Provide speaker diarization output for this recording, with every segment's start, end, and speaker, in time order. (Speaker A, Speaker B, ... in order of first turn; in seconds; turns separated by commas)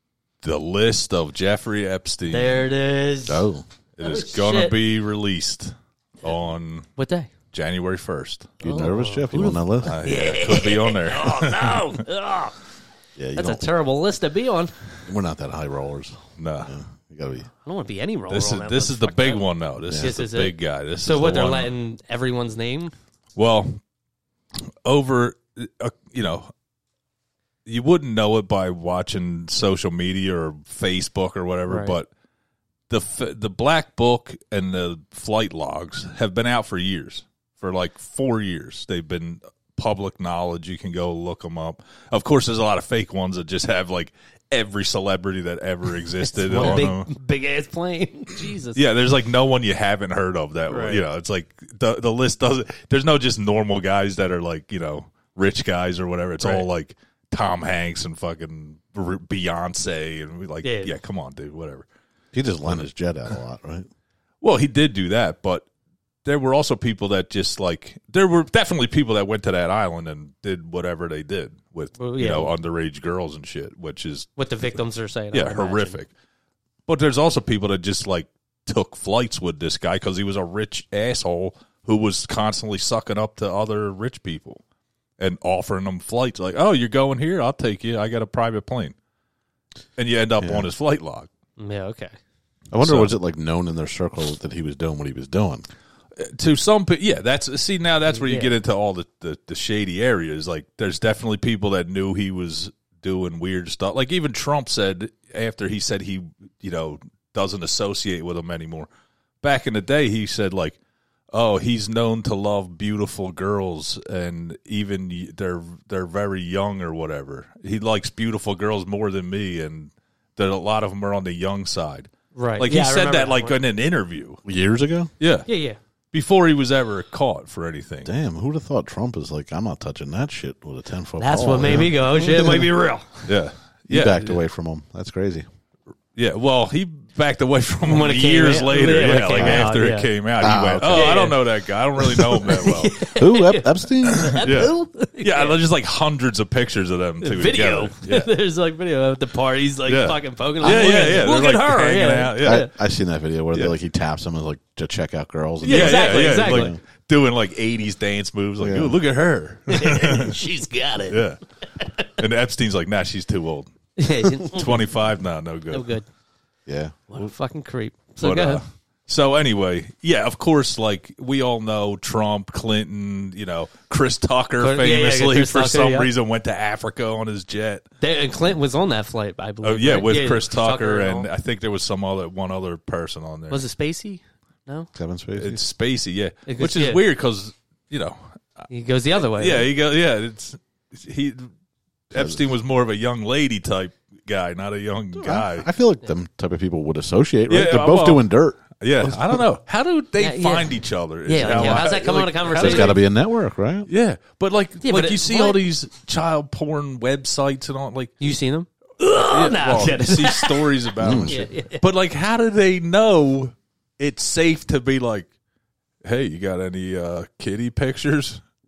Speaker A: 0.4-2.6, Speaker B: 2.3-3.4, Speaker C: 3.2-3.6, Speaker A: 4.0-6.9, Speaker B: 4.0-4.7, Speaker B: 7.0-7.3, Speaker A: 7.5-8.5, Speaker C: 8.6-10.0, Speaker B: 8.6-12.6, Speaker A: 9.8-11.9, Speaker C: 13.2-13.7, Speaker B: 13.3-14.7, Speaker C: 15.1-17.5, Speaker A: 16.4-16.7, Speaker B: 17.6-19.4, Speaker A: 18.3-21.7, Speaker C: 19.8-20.1, Speaker B: 19.9-22.9, Speaker A: 23.4-23.8, Speaker A: 24.6-26.5, Speaker A: 27.6-32.1, Speaker B: 31.7-32.0, Speaker A: 32.9-47.1, Speaker B: 46.4-48.8, Speaker A: 48.7-61.9, Speaker B: 50.7-51.0, Speaker B: 56.4-56.6, Speaker B: 60.6-61.0, Speaker C: 62.3-63.9, Speaker A: 64.4-65.7, Speaker A: 66.2-74.8, Speaker B: 72.0-72.5, Speaker B: 74.4-76.0, Speaker A: 75.3-76.1, Speaker A: 76.9-84.6, Speaker A: 85.2-88.9, Speaker A: 90.0-91.3, Speaker C: 90.4-90.6, Speaker B: 91.6-92.1, Speaker C: 92.7-95.6, Speaker A: 92.8-93.1, Speaker A: 96.2-108.9, Speaker B: 98.1-98.5, Speaker A: 109.4-110.8, Speaker A: 111.3-124.4, Speaker B: 122.3-123.6, Speaker C: 124.4-125.1, Speaker A: 125.2-125.5, Speaker B: 125.5-125.8, Speaker A: 126.1-128.1, Speaker C: 128.0-132.7, Speaker B: 131.2-133.3, Speaker A: 133.2-134.4, Speaker C: 133.9-135.4, Speaker A: 136.2-142.9, Speaker B: 137.8-140.1, Speaker C: 139.3-139.7, Speaker C: 140.4-141.3, Speaker B: 140.9-141.4, Speaker B: 142.2-145.6, Speaker C: 142.2-142.5, Speaker C: 143.1-144.4, Speaker A: 144.1-148.3, Speaker B: 147.2-152.7, Speaker A: 149.8-152.7, Speaker C: 150.6-151.3, Speaker C: 152.4-156.8, Speaker B: 155.6-156.7, Speaker A: 155.6-160.4, Speaker C: 158.6-159.0, Speaker B: 159.7-161.2, Speaker A: 161.1-161.4, Speaker A: 162.0-163.7, Speaker B: 164.0-164.8, Speaker A: 164.4-165.9, Speaker B: 165.7-166.1, Speaker C: 166.7-167.3, Speaker B: 167.1-168.6, Speaker A: 168.2-177.8, Speaker B: 174.6-176.1, Speaker B: 178.0-181.3, Speaker A: 179.6-183.6, Speaker B: 183.5-184.9, Speaker C: 184.9-185.6, Speaker A: 185.3-188.4, Speaker B: 186.4-187.0, Speaker B: 188.7-189.7, Speaker A: 189.2-191.5, Speaker A: 192.1-195.7, Speaker C: 195.2-199.4, Speaker A: 197.5-198.2, Speaker A: 198.8-203.0, Speaker B: 200.2-200.7, Speaker B: 201.2-203.0, Speaker C: 201.4-201.8, Speaker C: 202.5-203.9, Speaker A: 203.9-208.2, Speaker B: 204.8-205.6, Speaker B: 208.2-211.8, Speaker A: 209.2-215.3, Speaker C: 211.0-211.4, Speaker A: 216.0-218.4